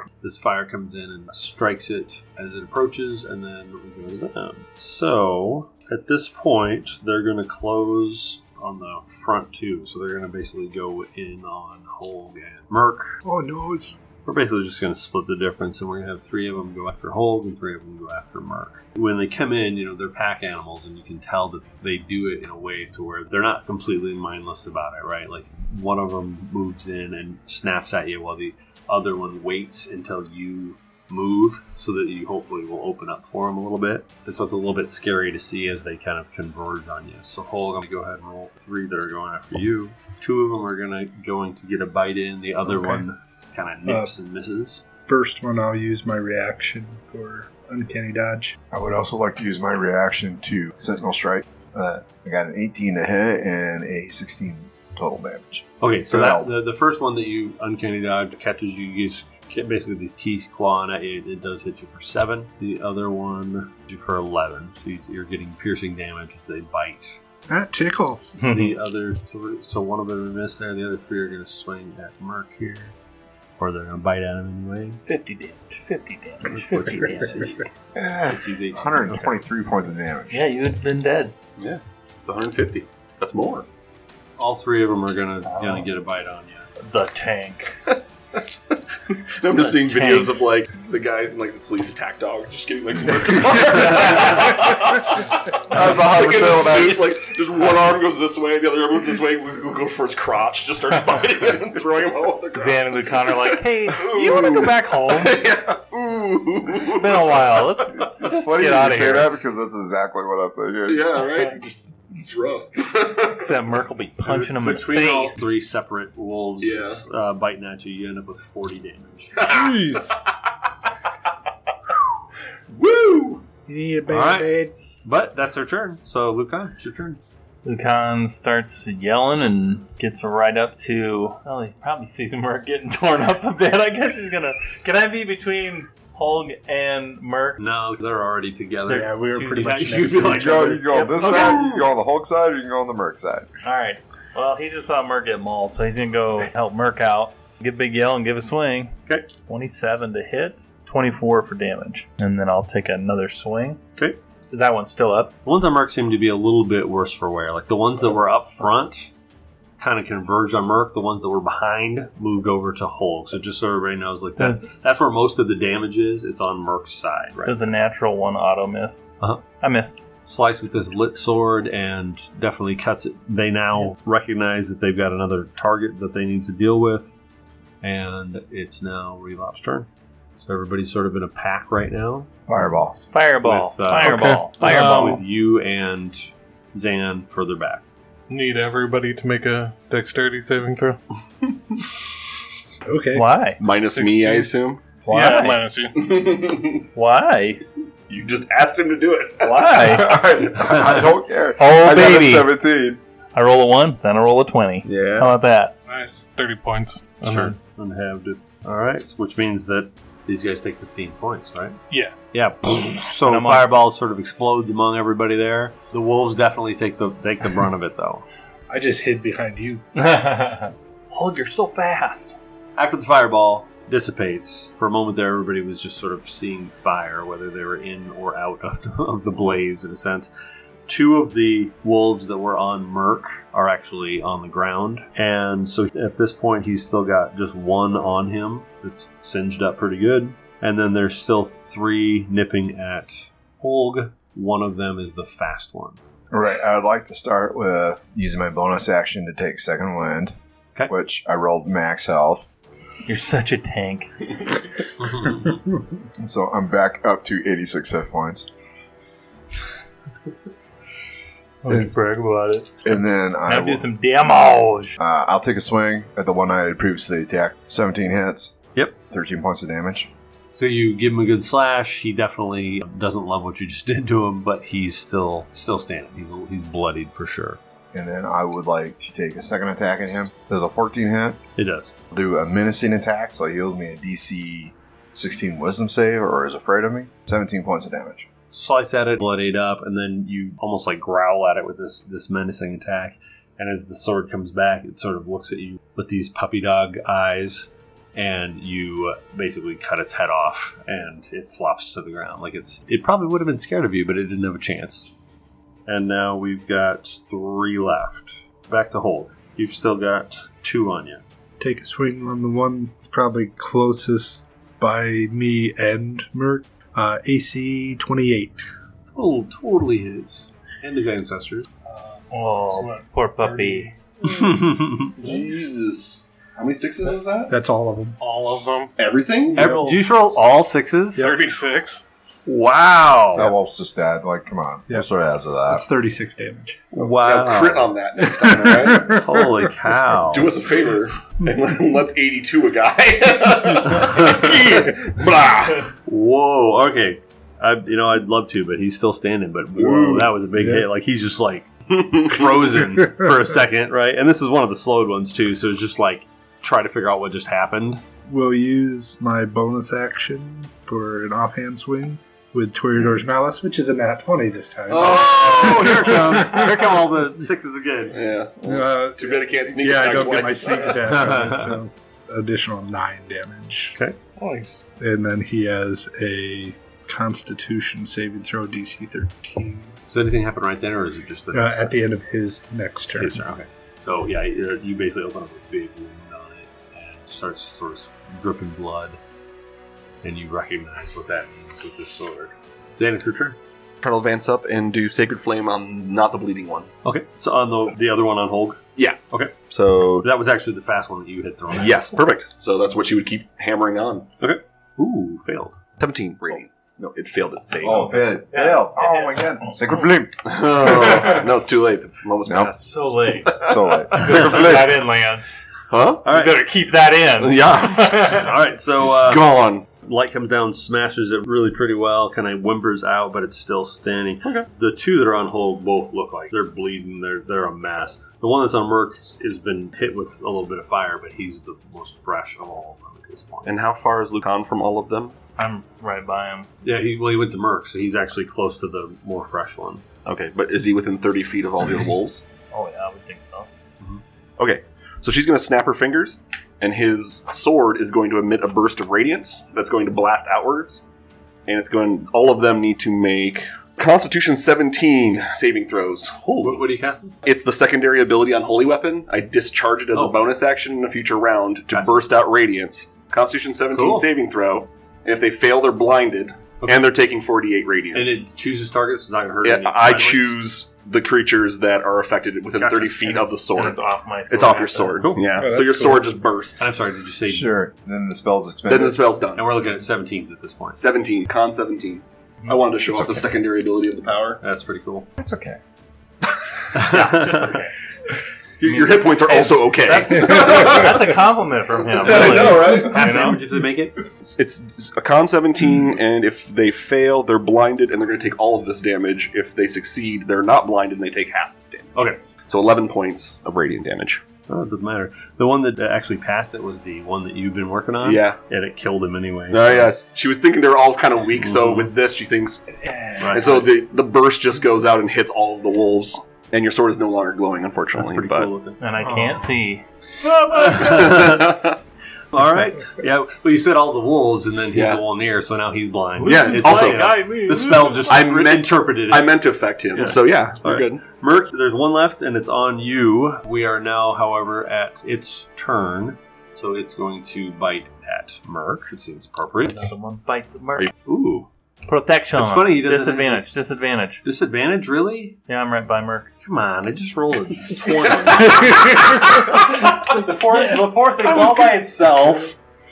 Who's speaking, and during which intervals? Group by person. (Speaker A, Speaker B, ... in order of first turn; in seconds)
Speaker A: 0.2-13.2, 14.2-44.8, 55.8-67.2, 68.5-72.9, 73.6-75.0, 76.5-77.6, 78.3-79.3, 84.4-86.7, 114.2-119.4, 124.1-124.5, 125.0-127.2, 137.6-140.8, 155.4-159.1, 159.8-167.5, 170.2-177.1, 177.8-179.9, 180.4-182.3, 183.4-187.8, 200.6-201.1, 207.2-211.8, 212.3-218.2, 222.8-230.3, 230.9-246.0, 270.5-277.6, 281.6-281.9, 288.5-311.2, 319.1-321.7, 324.2-325.2, 329.5-331.3, 332.4-333.5, 336.9-337.9, 339.1-340.6, 344.0-344.4, 346.1-358.0, 365.0-368.2, 371.0-371.8, 380.1-382.0, 383.1-389.2, 390.2-393.6, 397.0-399.6, 400.2-402.1, 404.4-405.8, 414.2-414.8, 416.2-416.6, 417.8-433.7, 436.8-440.0, 456.4-457.3, 460.1-460.4, 463.9-464.3, 468.1-470.5, 475.2-475.6, 476.8-477.7, 479.5-481.0, 484.6-485.3, 486.9-487.8, 492.2-494.2, 504.7-510.1, 511.6-512.1, 513.4-513.9, 518.1-519.0, 520.7-521.9, 522.5-529.6, 530.1-540.1, 541.2-541.7, 542.5-543.6, 544.4-545.6, 546.6-552.7
Speaker B: 13.2-14.0, 43.9-44.1, 45.0-48.5, 67.5-68.4, 119.5-120.2, 123.7-124.7, 138.9-140.8, 192.8-193.3, 195.1-195.5, 218.7-219.8, 311.6-318.6, 327.5-328.2, 329.6-329.9, 335.7-337.1, 338.3-339.7, 350.5-350.9, 358.3-367.0, 368.6-374.0, 375.0-380.0, 381.5-383.4, 475.6-476.3, 513.0-513.6, 519.2-519.6
Speaker C: 48.7-56.5, 78.0-80.4, 95.7-97.1, 107.9-111.1, 140.2-143.5, 182.4-183.0, 199.8-203.0, 246.3-250.3, 250.9-252.5, 256.2-258.5, 261.7-261.9, 262.8-263.8, 265.0-270.1, 277.9-281.4, 282.1-288.3, 333.3-335.8, 407.8-411.4, 412.4-412.7, 413.5-414.8, 477.4-479.2, 483.1-483.5, 485.4-485.8
Speaker D: 68.4-68.7, 75.0-77.5, 80.3-81.3, 85.4-85.9, 86.8-87.8, 89.6-90.4, 102.5-105.4, 106.8-109.3, 113.2-115.4, 127.6-137.6, 138.9-140.0, 140.7-141.7, 143.6-153.8, 154.5-155.3, 164.4-164.7, 167.4-169.1, 169.6-170.0, 183.1-185.2, 193.1-193.6, 195.1-195.6, 196.9-197.6, 199.4-200.2, 201.6-202.5, 203.3-205.7, 213.2-213.7, 219.9-222.3, 253.1-254.1, 261.6-265.0, 322.3-323.9, 408.5-409.7, 412.8-413.6, 414.1-415.5, 416.2-418.5, 435.6-436.7, 442.7-443.7, 472.8-475.2, 487.1-487.9, 488.8-493.6, 519.0-521.3, 526.4-528.2, 539.8-541.1, 542.0-544.4, 545.7-546.5
Speaker E: 81.6-83.7, 87.9-107.5, 110.8-113.5, 116.6-117.0, 119.4-120.3, 122.7-123.4, 193.6-194.8, 195.9-196.8, 198.1-200.0, 204.8-205.3, 325.2-327.5, 329.0-329.7, 337.2-339.3, 340.3-345.9, 349.8-350.3, 351.9-352.8, 364.9-366.6, 368.1-371.0, 394.0-396.9, 399.0-400.3, 401.7-404.3, 406.0-408.2, 410.4-414.2, 415.9-416.2, 417.4-418.1, 419.0-419.8, 433.6-435.4, 440.2-442.4, 444.6-451.0, 451.7-456.7, 457.4-468.3, 469.6-476.9, 478.9-479.7, 480.9-484.6, 488.8-491.3, 492.1-493.2, 494.4-504.4, 508.2-508.6, 509.7-518.7, 521.0-522.0, 524.9-525.2, 526.4-527.5, 528.2-531.3, 548.0-549.0
Speaker F: 183.9-185.2, 188.3-191.0, 193.7-194.5, 195.1-196.2, 205.9-207.6, 211.9-212.2, 321.9-324.0, 328.2-328.9, 331.1-332.0, 374.4-374.8